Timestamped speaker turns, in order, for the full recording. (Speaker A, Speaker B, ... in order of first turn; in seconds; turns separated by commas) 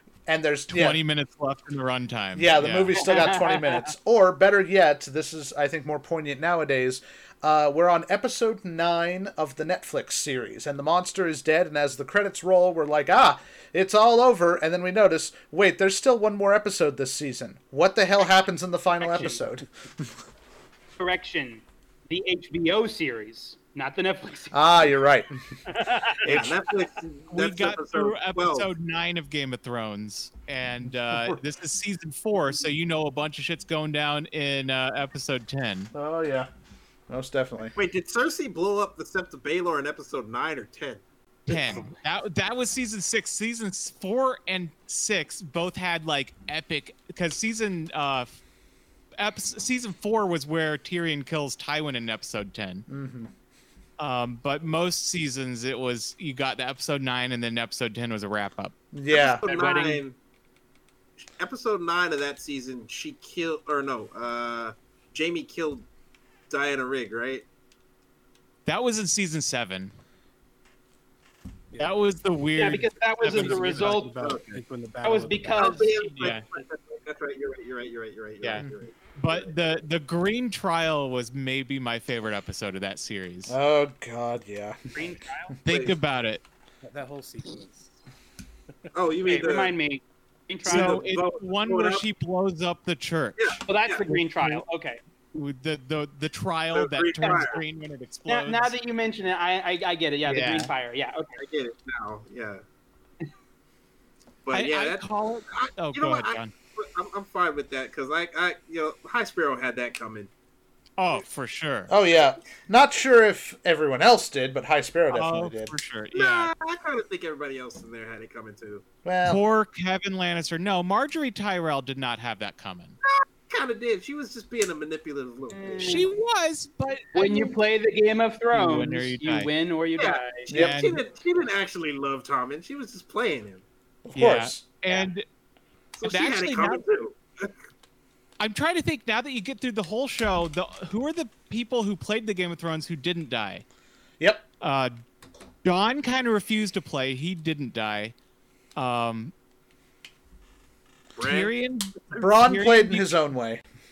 Speaker A: 0.3-1.0, Speaker B: 0.7-3.1, Speaker A: 2.3-20.1, Speaker C: 3.0-3.9, Speaker C: 19.0-19.4, Speaker C: 21.0-24.9, Speaker A: 24.5-25.3, Speaker C: 25.7-26.4, Speaker D: 26.2-28.7, Speaker A: 26.2-26.6, Speaker B: 27.3-35.9, Speaker A: 31.1-31.4, Speaker A: 35.9-36.5, Speaker A: 37.1-37.8, Speaker D: 37.8-41.9, Speaker B: 41.5-48.3, Speaker B: 49.2-52.9, Speaker A: 52.9-53.3, Speaker B: 54.0-58.7, Speaker A: 58.9-59.5, Speaker D: 59.1-60.2, Speaker C: 59.5-60.0, Speaker D: 61.2-65.9, Speaker D: 66.5-67.4, Speaker B: 68.7-69.9, Speaker B: 71.8-74.0, Speaker C: 72.6-74.1, Speaker E: 73.2-75.8, Speaker D: 74.2-74.6, Speaker C: 75.0-76.2, Speaker D: 75.6-79.5, Speaker B: 76.2-76.4, Speaker B: 78.4-83.5, Speaker A: 83.5-85.0, Speaker C: 84.9-85.5, Speaker B: 85.6-86.4, Speaker D: 85.7-86.0, Speaker E: 86.8-88.0, Speaker D: 88.9-89.7, Speaker C: 89.2-91.0, Speaker D: 90.6-92.0, Speaker B: 90.7-94.6, Speaker D: 93.4-94.0, Speaker C: 93.7-95.0, Speaker B: 95.3-98.7, Speaker D: 96.7-97.6, Speaker C: 97.2-97.5, Speaker C: 98.3-101.4, Speaker B: 100.2-100.7, Speaker D: 101.4-102.6, Speaker D: 104.5-110.3, Speaker B: 104.5-106.5, Speaker B: 111.0-111.9, Speaker A: 111.9-115.7, Speaker B: 115.1-116.5, Speaker D: 116.1-118.8, Speaker A: 119.0-119.4, Speaker B: 119.2-123.0, Speaker D: 123.1-126.0, Speaker C: 125.5-126.1, Speaker B: 125.8-127.5, Speaker C: 127.1-130.5, Speaker B: 128.5-129.5, Speaker D: 130.0-133.6, Speaker B: 130.4-131.0, Speaker A: 130.5-130.8, Speaker A: 134.0-134.6, Speaker B: 134.1-135.2, Speaker D: 135.9-137.5, Speaker B: 136.0-136.8, Speaker B: 138.4-143.6, Speaker A: 144.2-144.4, Speaker B: 144.6-144.9, Speaker B: 145.6-148.1, Speaker B: 148.7-149.3, Speaker D: 151.2-151.5, Speaker B: 151.2-153.2, Speaker A: 152.2-153.6